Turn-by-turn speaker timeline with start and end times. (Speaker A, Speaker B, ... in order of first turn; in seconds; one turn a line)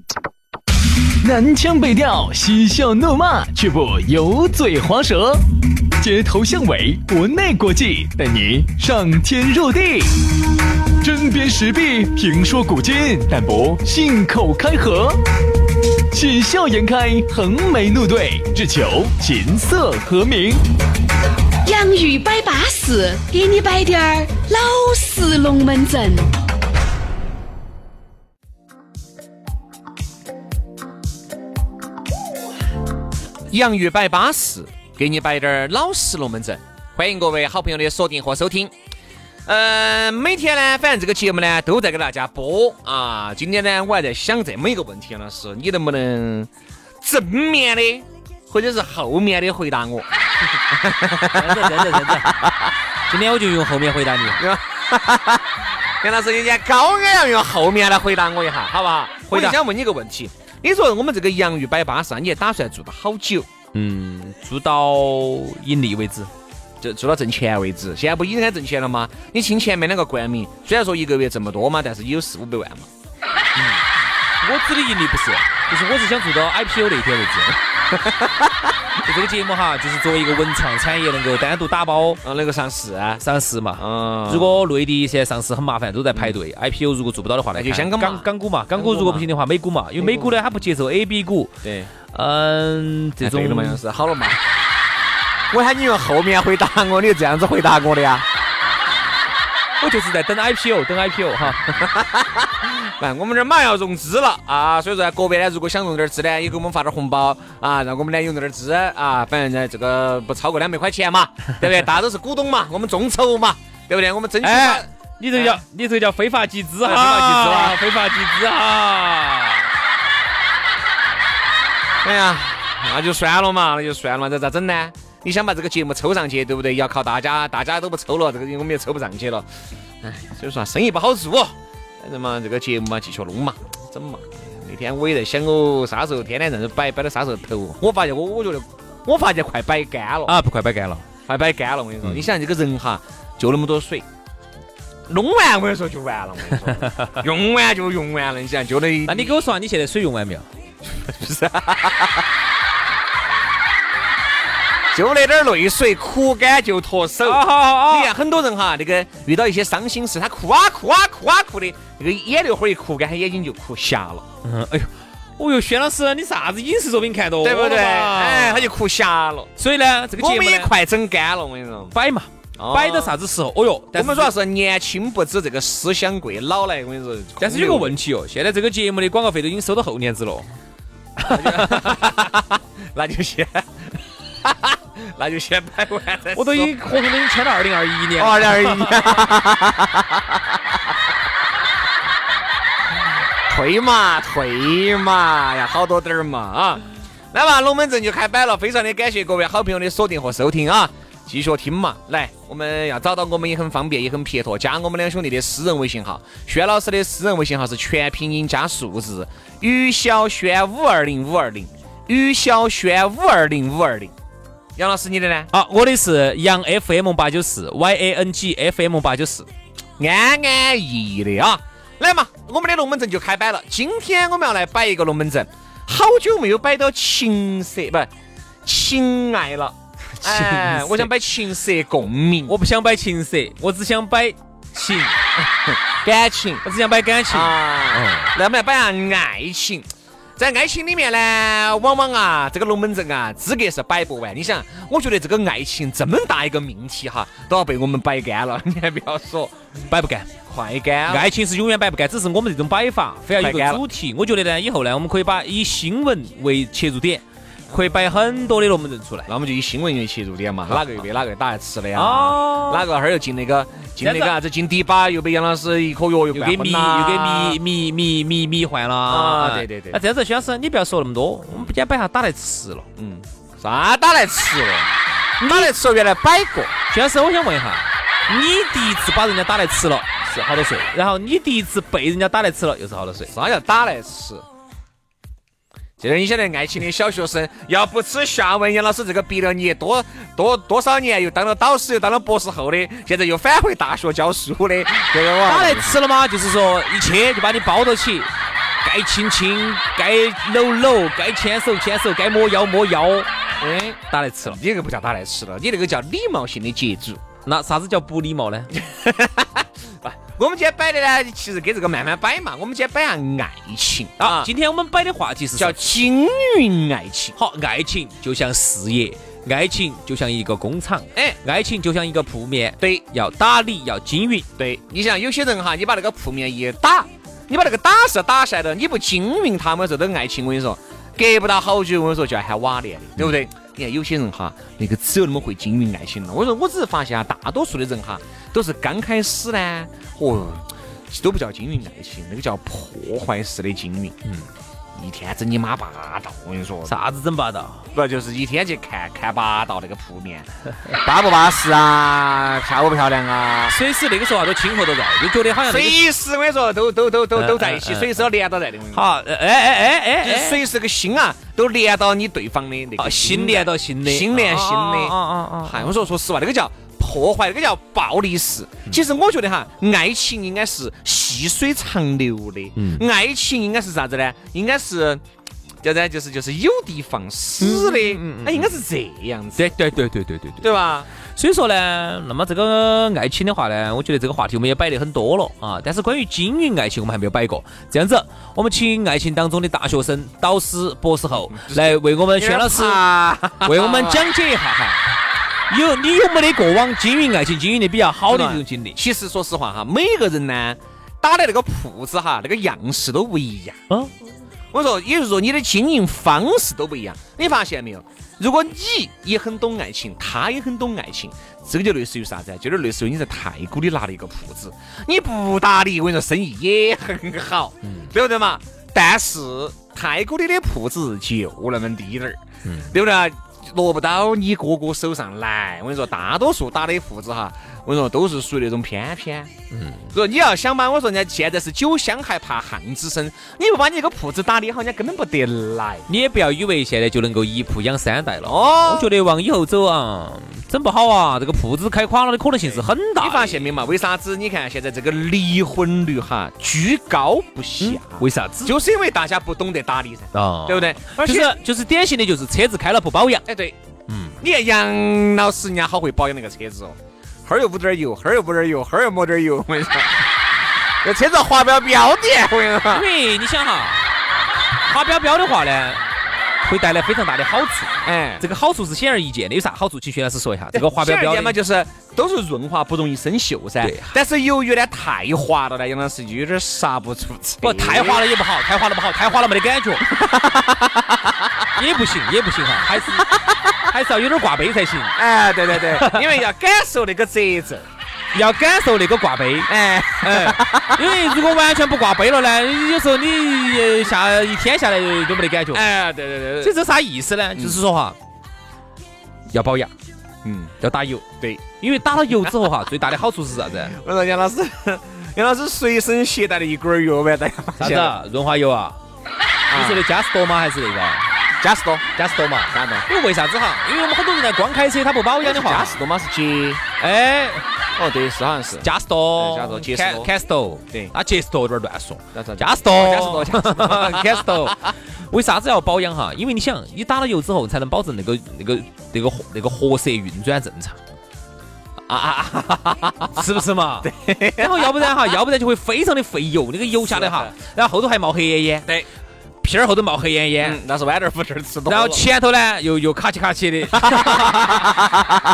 Speaker A: 1.2-5.5
Speaker A: 6.0-10.2
Speaker A: 11.0-15.2
Speaker A: 16.1-20.6
Speaker B: 21.6-26.3
Speaker C: 33.5-38.7
Speaker C: 39.5-46.5
Speaker C: 47.0-50.1
Speaker C: 50.7-52.5
Speaker D: 51.3-52.4
Speaker D: 53.1-54.4
Speaker C: 54.4-55.4
Speaker C: 56.0-63.5
Speaker D: 59.3-59.6
Speaker D: 63.7-66.3
Speaker C: 66.8-72.9
Speaker D: 73.6-73.9
Speaker D: 74.4-77.6
Speaker C: 77.9-78.7
Speaker D: 79.0-82.2
Speaker C: 82.2-83.2
Speaker D: 83.2-91.5
Speaker C: 83.8-84.6
Speaker C: 86.1-86.4
Speaker C: 87.5-89.3
Speaker C: 90.0-90.3
Speaker C: 91.6-91.9
Speaker D: 92.1-93.8
Speaker C: 93.2-94.4
Speaker C: 95.5-98.3
Speaker D: 99.8-101.8
Speaker C: 101.8-115.6
Speaker D: 114.4-119.7
Speaker C: 116.8-117.8
Speaker C: 122.0-129.5
Speaker C: 130.0-140.4
Speaker D: 140.3-141.1
Speaker C: 141.3-144.1
Speaker C: 145.1-149.4
Speaker D: 149.1-150.5
Speaker C: 151.0-152.3
Speaker C: 154.9-164.2
Speaker D: 157.2-158.1
Speaker D: 164.4-168.7
Speaker C: 167.4-169.5
Speaker D: 169.6-170.7
Speaker C: 170.2-171.9
Speaker D: 171.9-174.3
Speaker C: 172.6-173.2
Speaker C: 173.9-178.0
Speaker D: 177.4-180.5
Speaker D: 181.2-181.9
Speaker C: 181.3-183.8
Speaker C: 184.4-186.7
Speaker D: 186.3-189.3
Speaker C: 188.2-190.4
Speaker C: 193.5-214.1
Speaker C: 214.8-215.5
Speaker D: 215.5-219.5
Speaker C: 220.0-228.1
Speaker C: 228.7-232.6
Speaker D: 230.2-231.1
Speaker D: 232.5-235.2
Speaker C: 235.4-236.7
Speaker D: 236.6-238.3
Speaker C: 237.3-249.5
Speaker D: 249.9-250.3
Speaker C: 250.5-251.3
Speaker D: 251.1-259.3
Speaker C: 253.4-253.8
Speaker C: 259.3-267.6
Speaker D: 261.9-262.9
Speaker D: 264.0-264.4
Speaker D: 266.3-272.9
Speaker C: 269.1-270.0
Speaker C: 273.0-276.7
Speaker D: 275.4-275.7
Speaker D: 276.9-283.3
Speaker C: 283.3-284.4
Speaker C: 286.0-296.0
Speaker D: 295.4-298.3
Speaker D: 298.8-303.3
Speaker C: 303.6-307.2
Speaker D: 304.1-304.6
Speaker D: 307.4-308.7
Speaker C: 308.8-314.5
Speaker D: 314.2-315.8
Speaker C: 315.5-317.4
Speaker D: 317.4-324.5
Speaker C: 322.8-323.1
Speaker C: 324.6-344.2
Speaker C: 345.0-347.0
Speaker D: 346.9-347.8
Speaker C: 347.9-353.8
Speaker D: 353.7-356.0
Speaker C: 355.7-359.0
Speaker D: 357.4-358.3
Speaker D: 358.9-360.6
Speaker C: 360.2-375.2
Speaker D: 363.0-366.1
Speaker D: 372.8-373.0
Speaker C: 375.8-379.7
Speaker D: 377.6-378.8
Speaker D: 379.6-380.7
Speaker C: 380.6-381.1
Speaker D: 381.4-393.0
Speaker C: 391.5-394.3
Speaker D: 393.6-395.0
Speaker D: 395.7-399.0
Speaker C: 398.3-403.8
Speaker C: 404.7-422.4
Speaker D: 417.8-418.1
Speaker D: 422.6-422.9
Speaker C: 422.9-429.5
Speaker D: 429.7-430.1
Speaker C: 430.1-436.1
Speaker D: 436.1-443.7
Speaker C: 438.4-439.1
Speaker C: 442.6-451.6
Speaker D: 447.8-448.7
Speaker D: 450.3-453.4
Speaker C: 453.5-453.8
Speaker D: 454.1-454.4
Speaker C: 454.4-460.3
Speaker C: 461.0-463.1
Speaker D: 462.9-464.0
Speaker D: 464.8-466.0
Speaker D: 466.6-471.6
Speaker C: 468.0-468.5
Speaker C: 470.7-478.2
Speaker D: 473.8-474.1
Speaker D: 477.6-480.1
Speaker C: 480.1-481.3
Speaker D: 481.8-483.3
Speaker D: 483.9-485.1
Speaker C: 485.1-487.9
Speaker D: 485.7-486.2
Speaker D: 488.3-495.9
Speaker C: 489.7-491.1
Speaker C: 495.7-496.7
Speaker D: 496.6-498.2
Speaker C: 497.6-497.8
Speaker D: 499.5-499.9
Speaker C: 500.4-500.8
Speaker D: 500.8-501.3
Speaker D: 501.8-504.0
Speaker C: 503.8-508.1
Speaker D: 507.8-509.0
Speaker C: 509.7-510.1
Speaker D: 509.7-511.2
Speaker C: 511.6-512.0
Speaker D: 512.1-516.0
Speaker C: 512.7-513.1
Speaker C: 515.4-516.8
Speaker D: 517.0-517.6
Speaker C: 518.0-520.3
Speaker D: 518.8-531.0
Speaker C: 522.3-524.7
Speaker C: 532.1-533.5
Speaker D: 533.4-538.9
Speaker C: 534.0-535.1
Speaker C: 537.1-537.5
Speaker D: 539.6-540.8
Speaker C: 540.6-542.2
Speaker D: 541.9-545.1
Speaker C: 543.9-545.1